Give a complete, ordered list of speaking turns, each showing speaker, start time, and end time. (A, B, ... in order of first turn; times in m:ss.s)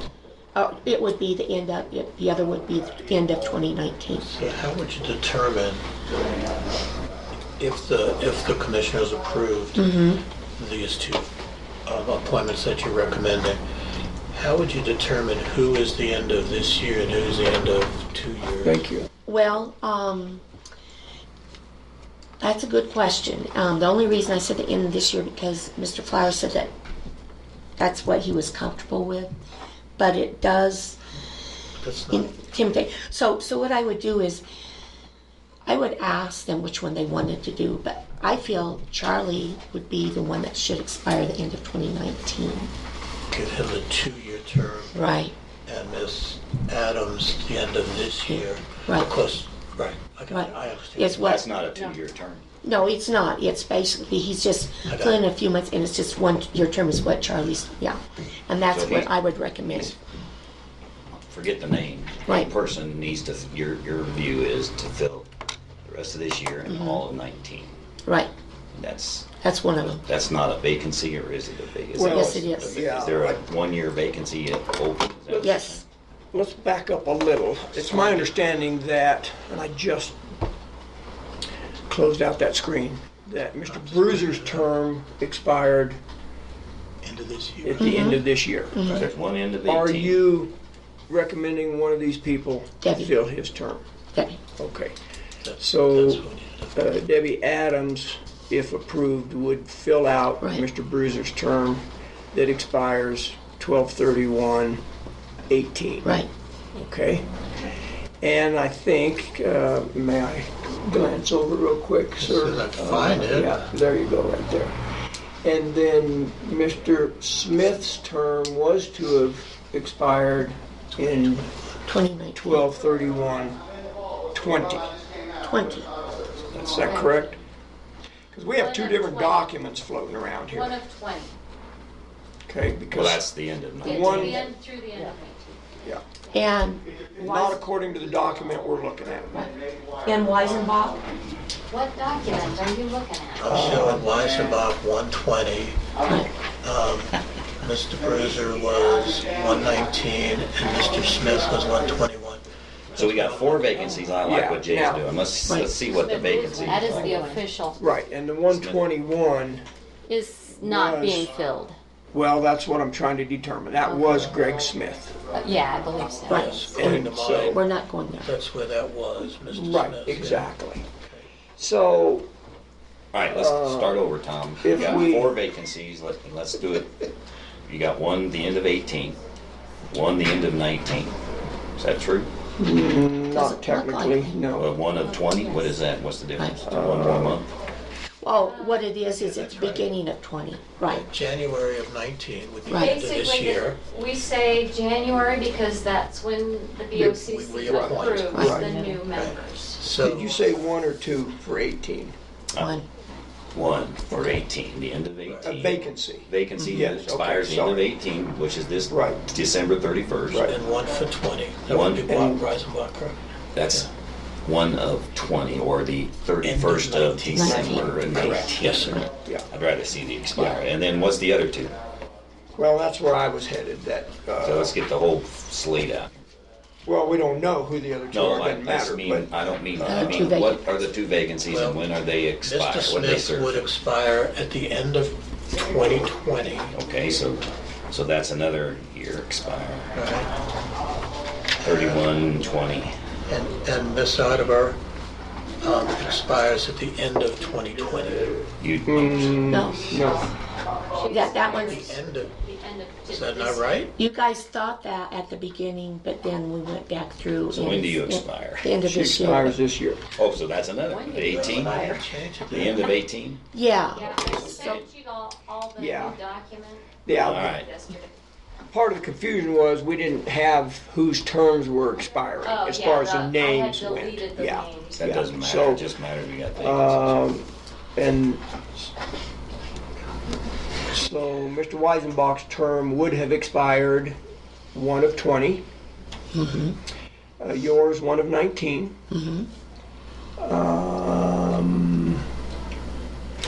0:00.5-0:04.3 A
0:04.3-0:05.8 B
0:07.6-0:09.8 B
0:09.8-0:10.2 A
0:10.6-0:11.3 B
0:11.8-0:13.6 B
0:14.3-0:18.8 B
0:18.6-0:19.1 C
0:19.2-0:20.4 A
0:22.4-0:26.7 A
0:27.8-0:29.3 A
0:30.0-0:31.0 A
0:31.8-0:32.3 B
0:32.1-0:34.4 A
0:35.6-0:42.7 A
0:43.3-0:45.0 B
0:44.9-0:45.3 A
0:45.6-0:51.3 B
0:48.3-0:49.1 A
0:50.3-0:51.5 A
0:51.2-0:52.4 D
0:52.6-1:00.0 A
0:54.9-0:55.2 B
0:58.7-0:59.1 D
1:01.1-1:05.2 D
1:05.8-1:07.8 D
1:06.6-1:07.0 A
1:08.0-1:08.3 A
1:08.7-1:09.3 D
1:09.4-1:10.0 A
1:09.8-1:15.8 D
1:12.0-1:13.4 C
1:12.0-1:12.9 A
1:15.3-1:15.7 C
1:15.4-1:15.8 A
1:16.3-1:20.2 C
1:17.7-1:18.3 D
1:21.9-1:26.0 C
1:23.6-1:24.7 B
1:27.0-1:28.1 B
1:27.6-1:28.8 C
1:27.8-1:29.1 A
1:28.8-1:30.2 D
1:29.7-1:30.5 C
1:31.1-1:33.8 C
1:32.8-1:33.1 A
1:34.1-1:34.4 A
1:34.6-1:34.9 C
1:35.4-1:36.7 B
1:35.6-1:36.2 C
1:36.7-1:44.8 C
1:45.5-1:46.1 C
1:46.8-1:47.2 C
1:48.2-1:54.8 C
1:52.2-1:53.6 B
1:55.4-2:01.5 C
2:01.8-2:02.7 A
2:02.4-2:03.6 C
2:04.3-2:05.0 C
2:05.4-2:05.9 A
2:06.6-2:07.4 C
2:06.8-2:07.3 E
2:08.3-2:10.8 C
2:08.6-2:09.5 E
2:10.5-2:11.3 E
2:12.5-2:13.2 C
2:12.9-2:14.4 D
2:13.8-2:15.6 E
2:13.9-2:14.5 C
2:16.3-2:16.8 A
2:17.2-2:19.5 C
2:17.2-2:17.6 E
2:20.0-2:21.0 A
2:21.7-2:23.8 E
2:23.4-2:25.8 B
2:23.5-2:24.0 C
2:26.6-2:32.4 B
2:32.9-2:37.2 D
2:34.2-2:35.0 C
2:35.5-2:35.7 A
2:36.0-2:37.8 E
2:37.7-2:39.6 C
2:38.4-2:38.8 D
2:40.1-2:41.8 E
2:40.6-2:41.4 C
2:42.1-2:45.2 C
2:43.8-2:44.4 E
2:45.3-2:46.7 E
2:46.3-2:47.6 B
2:46.3-2:48.3 A
2:46.7-2:47.6 C
2:48.2-2:50.5 B
2:49.5-2:50.9 C
2:51.6-2:52.3 C
2:53.1-2:57.0 D
2:53.3-2:54.0 C
2:54.6-2:55.3 C
2:54.7-2:55.0 E
2:57.6-2:59.2 D
2:59.9-3:01.1 D
3:01.8-3:02.3 D
3:02.6-3:04.7 C
3:03.3-3:04.3 A
3:04.5-3:07.5 D
3:05.0-3:05.7 E
3:06.6-3:07.4 C
3:08.2-3:11.0 A
3:08.4-3:08.8 E
3:09.2-3:09.9 B
3:10.8-3:13.8 B
3:12.7-3:13.0 A
3:12.7-3:19.8 E
3:16.9-3:18.7 C
3:17.2-3:20.4 B
3:18.3-3:18.9 A
3:20.0-3:22.2 C
3:22.6-3:22.8 A
3:23.5-3:30.5 D
3:25.3-3:25.5 B
3:25.5-3:27.8 C
3:28.9-3:29.3 C
3:30.4-3:33.2 B
3:31.7-3:32.2 D
3:32.1-3:32.4 C
3:33.5-3:33.9 D
3:34.4-3:38.9 D
3:36.4-3:39.1 B
3:37.3-3:39.1 A
3:37.5-3:38.4 C
3:39.1-3:39.5 C
3:39.5-3:41.8 D
3:42.5-3:44.7 C
3:44.4-3:46.2 D
3:46.8-3:49.3 C
3:48.1-3:53.7 D
3:49.8-3:50.7 A
3:51.5-3:51.9 B
3:52.4-3:56.7 B
3:56.7-3:59.9 D
3:59.9-4:00.3 B
4:01.6-4:02.0 B
4:01.6-4:02.9 D
4:03.2-4:04.8 B
4:05.6-4:08.5 B
4:08.6-4:09.5 D
4:08.8-4:10.3 C
4:09.3-4:10.3 E
4:09.5-4:09.9 A
4:10.9-4:13.8 E
4:11.1-4:11.9 A
4:11.6-4:12.3 B
4:13.1-4:13.9 B
4:14.0-4:19.6 A
4:17.5-4:18.8 D
4:18.8-4:20.0 C
4:20.1-4:21.9 D
4:20.9-4:22.0 E
4:21.2-4:23.0 B
4:22.5-4:23.4 D
4:23.5-4:24.8 A
4:23.9-4:28.2 E
4:24.0-4:24.8 D
4:25.8-4:26.2 C
4:27.0-4:27.5 C
4:27.1-4:27.7 D
4:28.7-4:35.9 C
4:32.4-4:35.1 E
4:34.9-4:37.2 D
4:36.6-4:38.4 C
4:40.9-4:44.2 C
4:44.7-4:45.6 C
4:46.3-4:46.8 A
4:47.4-4:49.0 C
4:49.1-4:49.5 A
4:50.4-4:52.2 C